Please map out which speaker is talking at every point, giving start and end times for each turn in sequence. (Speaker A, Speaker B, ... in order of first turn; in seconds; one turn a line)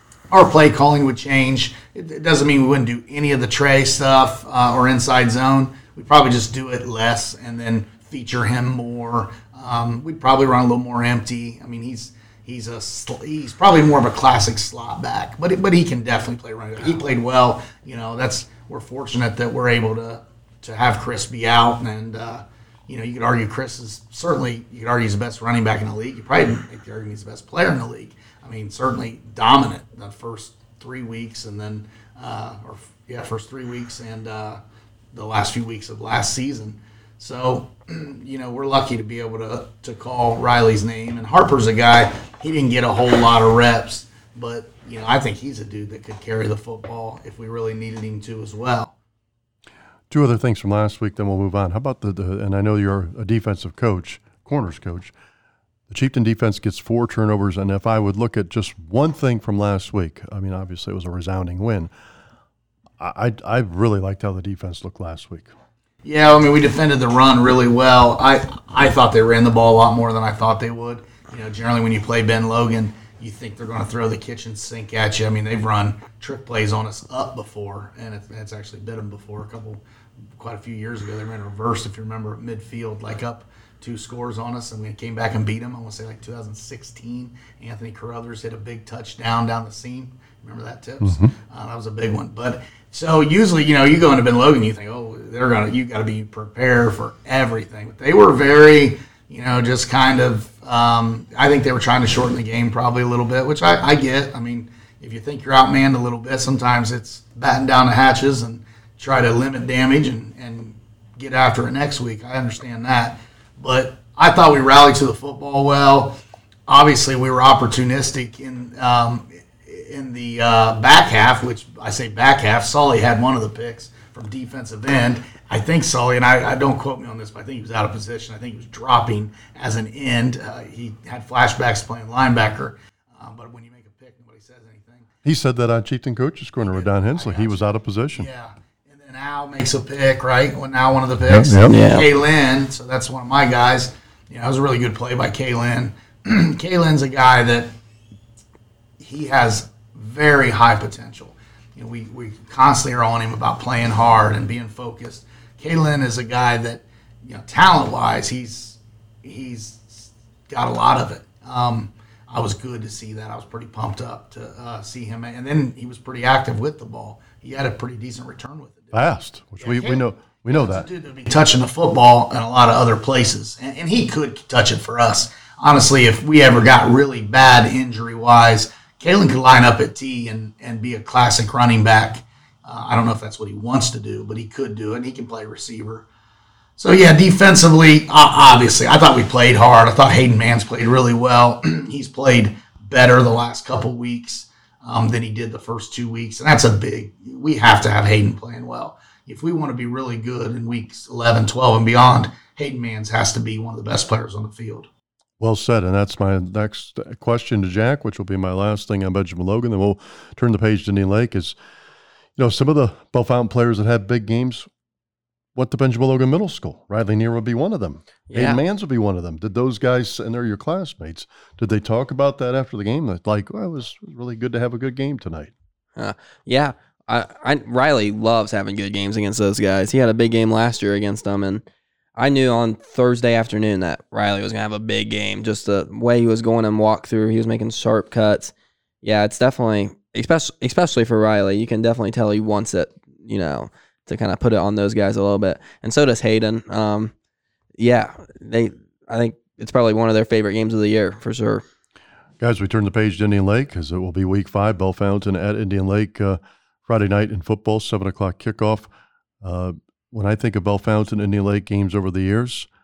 Speaker A: 0.3-34.6
Speaker A: 35.1-49.0
Speaker B: 50.1-55.1
Speaker B: 55.9-61.9
Speaker B: 63.0-65.5
Speaker A: 66.0-79.8
Speaker A: 80.4-135.1
Speaker B: 91.0-91.3
Speaker B: 135.2-138.3
Speaker A: 136.6-137.6
Speaker A: 138.1-147.7
Speaker B: 141.3-141.8
Speaker C: 141.7-142.1
Speaker A: 149.0-169.1
Speaker B: 168.9-170.9
Speaker A: 169.6-186.1
Speaker A: 186.8-204.9
Speaker B: 205.4-211.6
Speaker B: 212.4-214.7
Speaker B: 215.6-225.5
Speaker C: 218.3-218.6
Speaker C: 226.0-231.6
Speaker C: 232.2-247.1
Speaker C: 247.8-251.6
Speaker B: 252.4-258.9
Speaker B: 259.4-262.7